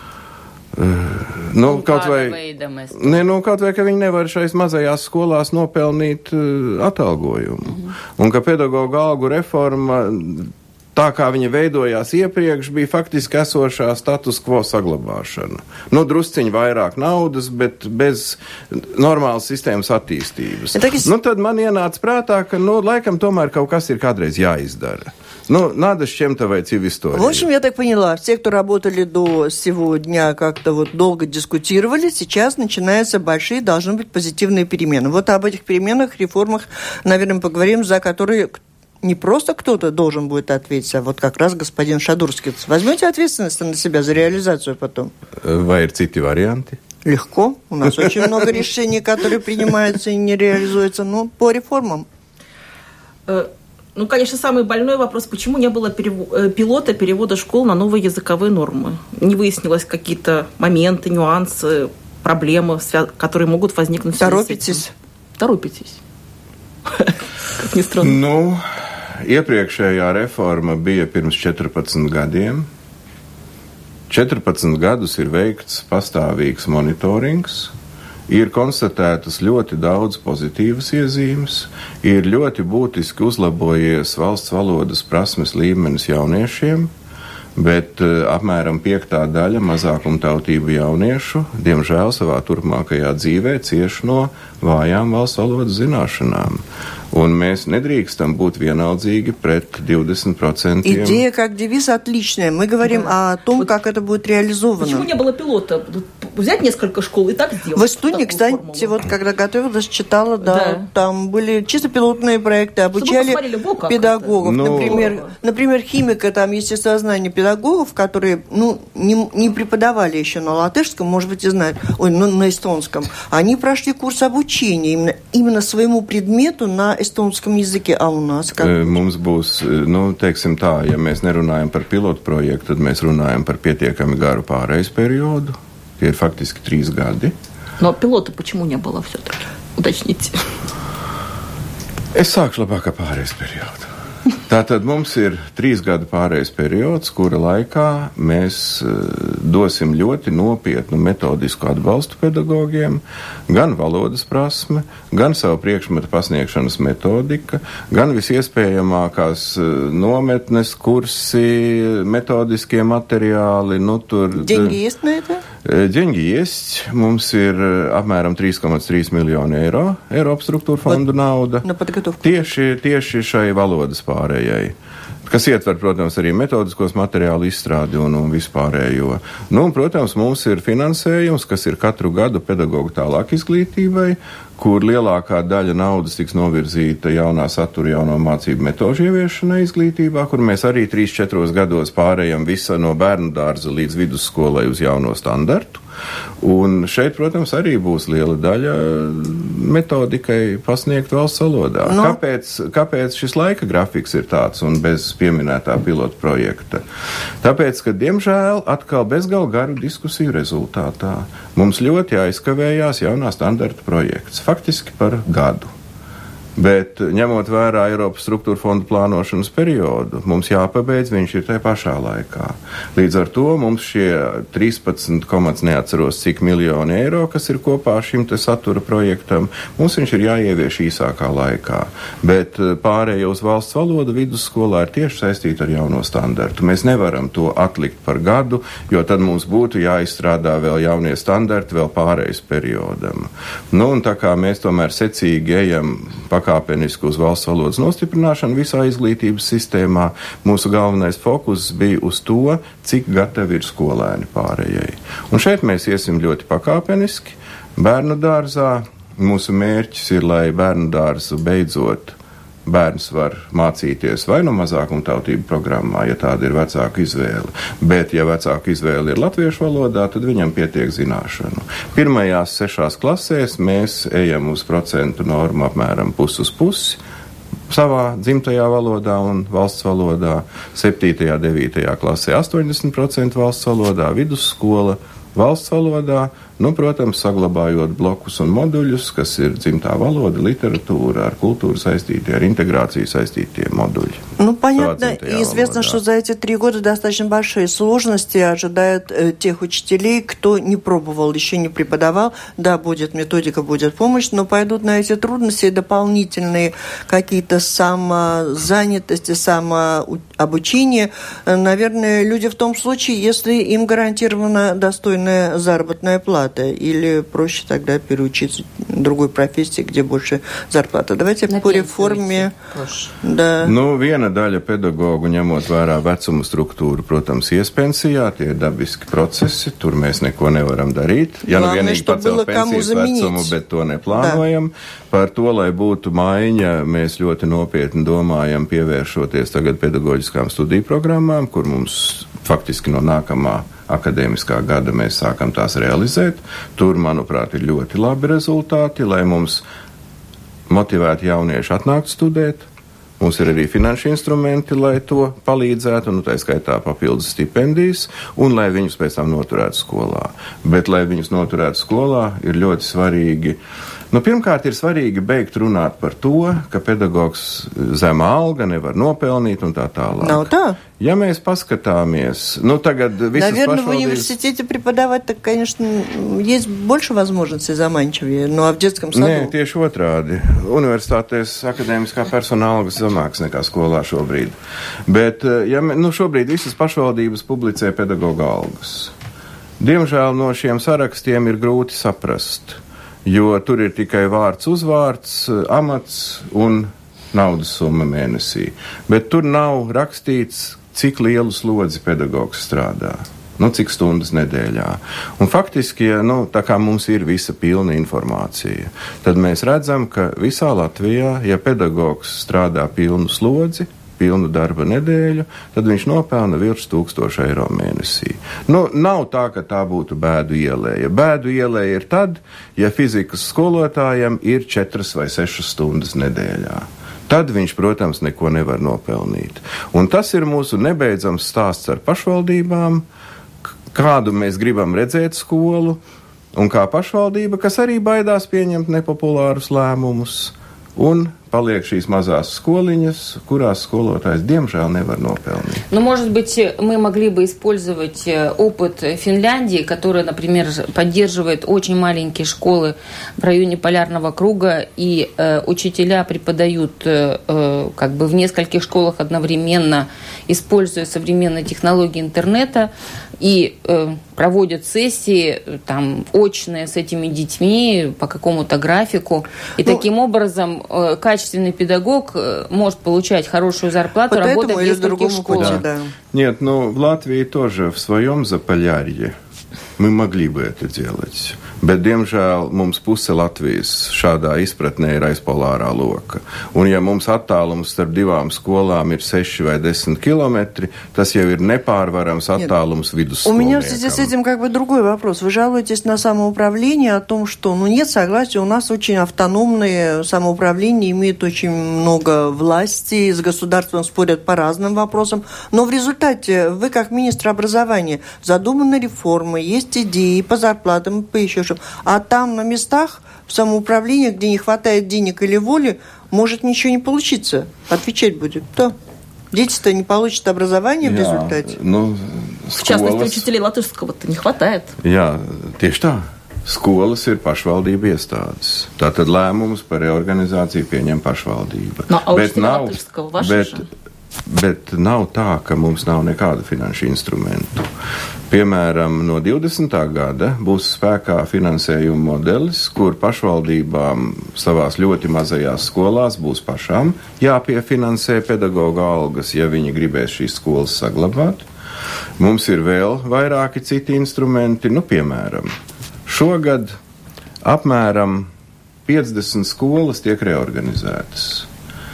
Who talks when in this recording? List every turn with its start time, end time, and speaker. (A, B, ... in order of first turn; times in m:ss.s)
0:00.8-0:02.4 A
0:01.7-0:03.2 B
0:02.9-0:27.5 A
0:20.7-0:21.1 C
0:27.1-0:45.1 C
0:45.4-0:46.8 A
0:47.0-0:52.1 C
0:48.0-0:48.4 A
0:53.3-1:04.8 D
1:04.2-1:04.9 C
1:05.4-1:06.0 D
1:06.9-1:08.2 D
1:08.0-1:08.6 A
1:09.2-1:12.7 A
1:14.1-1:17.7 A
1:18.3-1:26.9 A
1:27.6-1:41.2 A
1:40.8-1:45.1 C
1:42.8-1:43.7 D
1:44.8-1:49.0 D
1:47.8-2:09.0 C
1:50.4-1:50.9 D
1:53.0-1:55.3 D
1:54.4-1:55.1 A
2:08.6-2:17.4 A
2:17.8-2:20.5 D
2:22.1-2:23.9 A
2:24.5-2:44.8 A
2:44.4-2:45.4 C
2:45.6-2:51.7 A
2:51.6-2:52.2 C
2:52.2-2:54.8 A
2:55.3-3:15.8 A
3:16.4-3:26.8 A
3:21.8-3:22.2 C
3:27.4-3:35.7 A
3:36.6-4:37.0 A
4:37.7-4:54.2 A
4:54.4-5:22.5 C
4:54.8-4:56.0 A
5:21.5-5:23.1 B
5:23.2-5:23.7 C
5:23.6-5:49.6 A
5:31.5-5:33.5 C
5:34.2-5:34.4 C
5:50.7-5:52.7 A
5:53.2-6:03.6 A
6:04.1-6:14.3 A
6:10.2-6:10.8 C
6:13.4-6:19.5 C
6:19.1-6:29.1 A
6:29.8-7:13.0 A
7:13.9-7:16.0 A
7:16.5-7:25.8 A
7:25.9-7:55.8 B
7:54.3-7:56.1 C
7:55.6-7:55.8 A
7:56.3-7:59.3 A
8:00.0-8:14.3 A
8:13.4-8:38.9 C
8:39.5-8:41.7 C
8:41.0-8:43.5 A
8:42.8-8:45.0 D
8:45.0-8:53.8 A
8:52.1-8:53.8 D
8:54.5-8:57.9 A
8:58.5-9:11.7 A
9:12.4-9:15.7 A
9:16.3-9:17.0 A
9:17.6-9:18.5 A
9:19.1-9:21.7 A